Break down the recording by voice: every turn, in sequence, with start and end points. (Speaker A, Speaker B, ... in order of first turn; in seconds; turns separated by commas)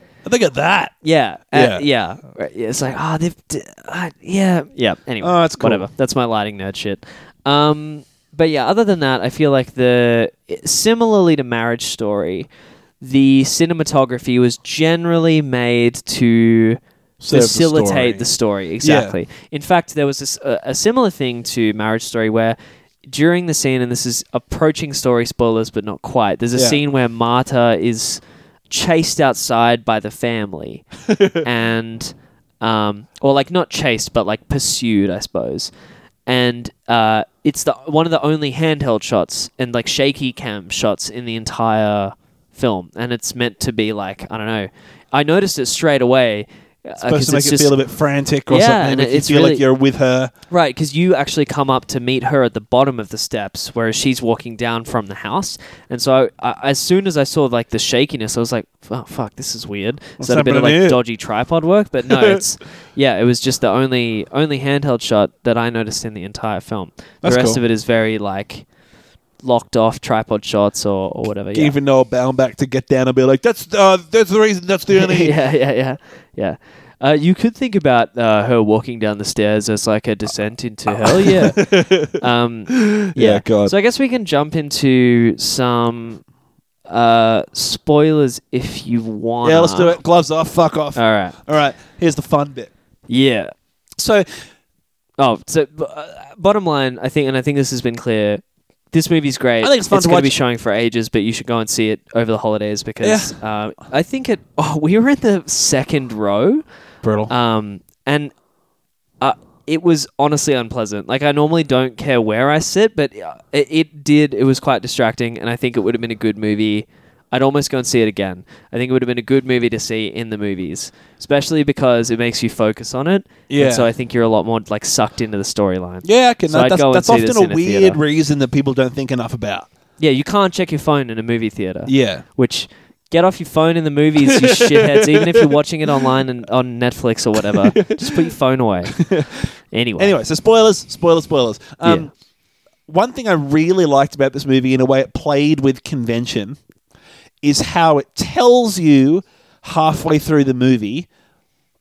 Speaker A: 0.2-0.9, Speaker B: 1.0-12.5, Speaker A: 1.5-1.8, Speaker A: 5.2-5.9, Speaker B: 13.0-30.9, Speaker A: 17.2-18.3, Speaker A: 18.8-19.2, Speaker A: 31.1-31.4, Speaker B: 31.4-35.7, Speaker B: 36.3-47.7, Speaker A: 47.0-50.3, Speaker B: 48.5-49.6, Speaker B: 50.5-68.7, Speaker A: 60.2-61.0, Speaker A: 62.1-62.4, Speaker A: 67.2-67.6, Speaker B: 69.4-71.8, Speaker A: 71.5-75.3, Speaker B: 74.9-86.2, Speaker A: 80.9-83.7, Speaker B: 86.9-90.0, Speaker A: 89.4-92.7, Speaker B: 91.0-91.4, Speaker B: 93.1-93.5, Speaker A: 94.0-94.4, Speaker B: 95.2-106.6, Speaker A: 99.6-100.3, Speaker A: 103.0-103.3, Speaker A: 107.0-107.3, Speaker B: 107.3-108.3, Speaker B: 109.2-128.0, Speaker A: 123.5-123.9, Speaker A: 126.0-129.7, Speaker B: 130.0-139.0, Speaker A: 131.9-132.2, Speaker A: 134.2-136.2, Speaker A: 137.4-138.3, Speaker A: 138.9-139.4, Speaker B: 139.7-140.1, Speaker A: 140.0-142.1, Speaker B: 141.8-142.1, Speaker A: 142.9-146.6, Speaker A: 147.4-151.1